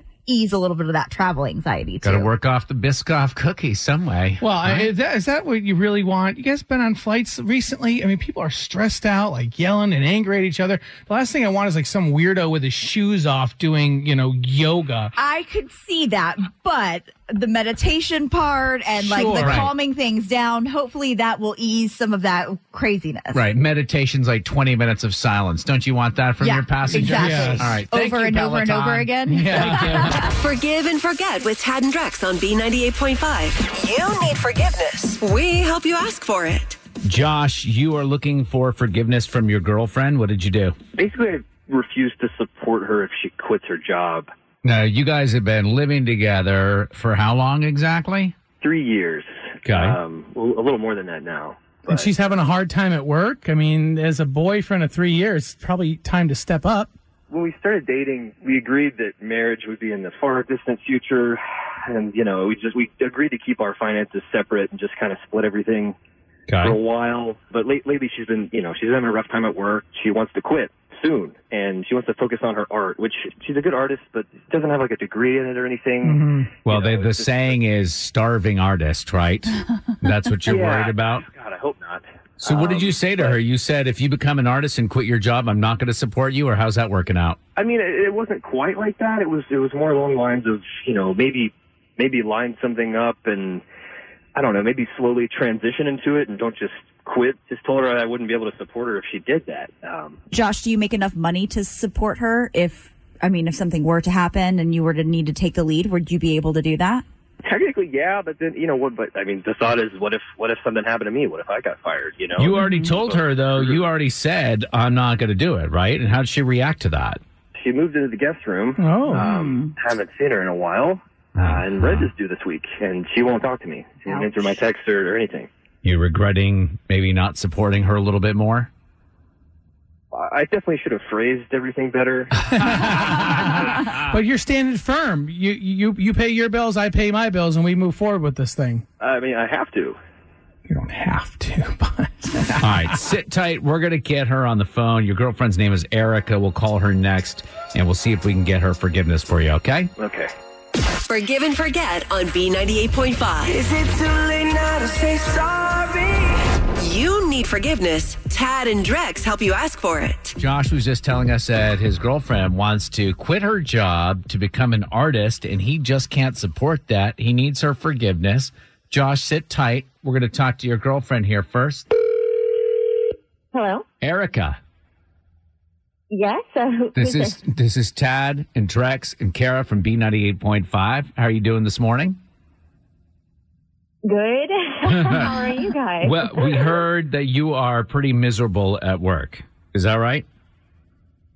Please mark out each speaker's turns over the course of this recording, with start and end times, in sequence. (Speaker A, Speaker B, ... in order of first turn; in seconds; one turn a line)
Speaker A: 0.3-2.3
Speaker B: 2.0-4.9
Speaker C: 4.4-15.1
Speaker A: 15.2-23.4
Speaker C: 19.0-19.6
Speaker B: 19.3-19.7
Speaker B: 23.3-30.2
Speaker A: 26.4-30.3
Speaker C: 26.9-27.7
Speaker C: 29.3-30.2
Speaker D: 30.2-36.8
Speaker B: 37.0-40.8
Speaker E: 41.0-44.3
Speaker B: 44.6-48.3
Speaker E: 48.6-52.1
Speaker B: 49.6-50.0
Speaker C: 51.9-56.9
Speaker E: 57.3-65.9
Speaker B: 66.5-66.8
Speaker E: 66.6-77.6
Speaker C: 76.0-76.5
Speaker B: 76.6-81.2
Speaker E: 80.5-83.4
Speaker B: 82.4-87.4
Speaker E: 87.5-93.6
Speaker E: 94.3-100.2
Speaker A: 100.3-107.0
Speaker E: 107.4-113.8
Speaker B: 112.4-117.2
Speaker E: 117.5-125.5
Speaker C: 118.8-119.3
Speaker A: 119.2-119.7
Speaker B: 121.3-122.1
Speaker B: 125.8-128.7
Speaker E: 130.1-132.4
Speaker C: 132.4-138.8
Speaker B: 132.9-133.2
Speaker E: 139.0-140.0
Speaker C: 140.7-142.9
Speaker B: 142.6-149.9
Speaker E: 150.0-150.3
Speaker D: 151.1-153.7
Speaker E: 153.8-156.0
Speaker D: 156.8-160.4
Speaker B: 160.4-171.9
Speaker F: 173.5-173.8
Speaker B: 174.0-174.6
Speaker F: 176.1-177.4
Speaker B: 176.9-182.2
Speaker F: 184.0-186.7
Speaker B: 184.9-185.3
Speaker B: 186.0-190.2